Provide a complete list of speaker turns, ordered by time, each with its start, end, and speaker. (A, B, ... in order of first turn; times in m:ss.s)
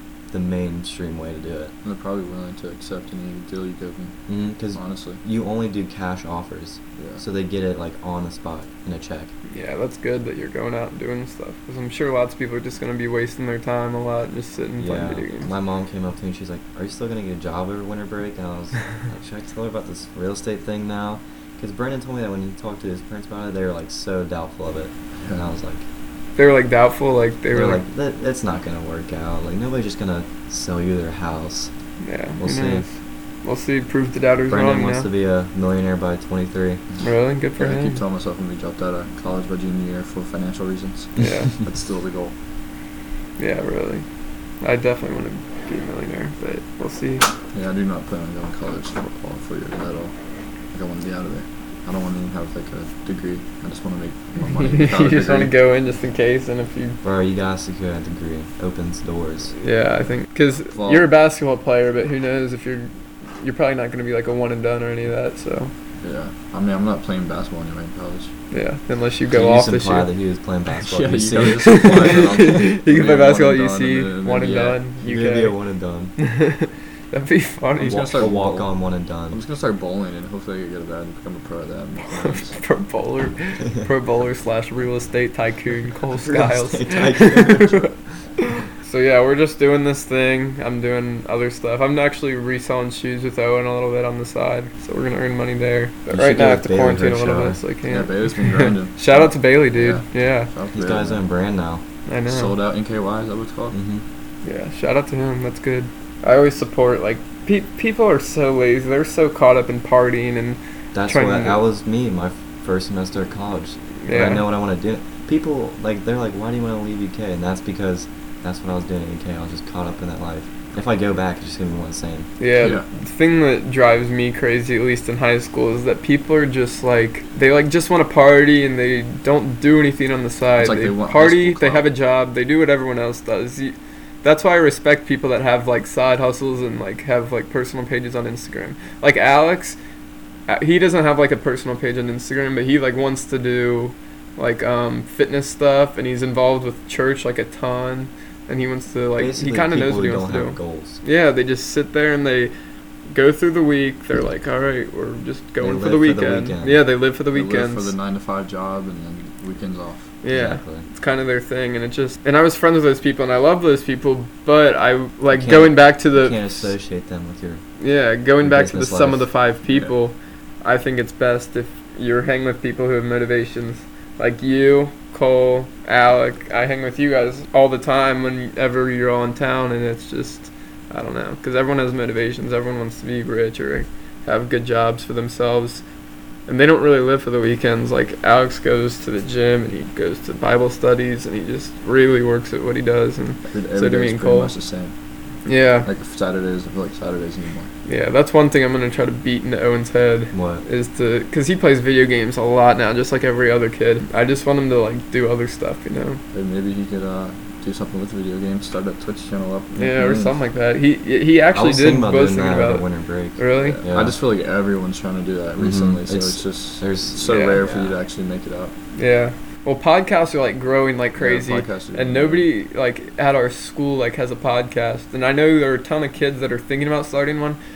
0:00.3-0:01.7 A
0:01.8-0:05.2 B
0:04.3-0:09.3 A
0:07.0-0:07.2 B
0:09.5-0:15.5 C
0:14.8-0:25.8 A
0:25.2-0:25.5 B
0:26.4-0:27.8 C
0:27.5-0:31.7 A
0:32.0-0:35.1 C
0:32.4-0:32.8 A
0:34.5-0:36.8 A
0:37.0-0:38.0 C
0:37.6-0:42.3 B
0:41.2-0:41.5 C
0:43.4-0:44.0 C
0:44.6-0:47.2 C
0:47.5-0:50.1 B
0:50.7-0:55.5 B
0:54.4-0:57.0 C
0:57.0-0:59.5 A
0:59.6-1:05.7 C
1:00.7-1:01.1 B
1:06.0-1:08.3 B
1:08.5-1:10.1 C
1:09.3-1:12.2 A
1:10.8-1:14.8 B
1:11.6-1:15.6 C
1:15.0-1:16.1 A
1:16.2-1:18.2 C
1:17.8-1:22.6 B
1:17.8-1:19.4 A
1:22.0-1:27.9 C
1:26.2-1:28.0 A
1:28.5-1:40.5 C
1:36.1-1:37.6 A
1:37.9-1:41.2 B
1:40.7-1:41.8 A
1:42.1-1:42.5 C
1:42.2-1:43.8 B
1:43.7-1:44.0 A
1:44.4-1:51.6 C
1:50.9-2:02.3 A
1:54.0-1:54.4 C
2:02.4-2:19.8 C
2:02.6-2:02.8 B
2:10.6-2:11.9 B
2:20.5-2:32.5 C
2:29.2-2:31.0 A
2:33.1-2:37.9 C
2:35.6-2:36.8 A
2:37.3-2:40.1 B
2:40.2-2:46.6 C
2:40.3-2:40.8 A
2:45.3-2:47.6 A
2:47.8-3:05.8 C
2:48.4-2:49.3 A
2:49.7-2:49.9 B
3:06.5-3:14.5 C
3:13.5-3:14.9 B
3:15.4-3:15.9 C
3:15.8-3:17.7 B
3:17.8-3:26.2 C
3:20.3-3:20.6 A
3:26.3-3:30.4 B
3:29.8-3:32.8 C
3:31.5-3:34.2 A
3:33.4-3:33.8 C
3:33.6-3:38.8 B
3:35.6-3:37.8 A
3:37.2-3:37.6 C
3:38.9-3:47.6 C
3:41.2-3:42.5 B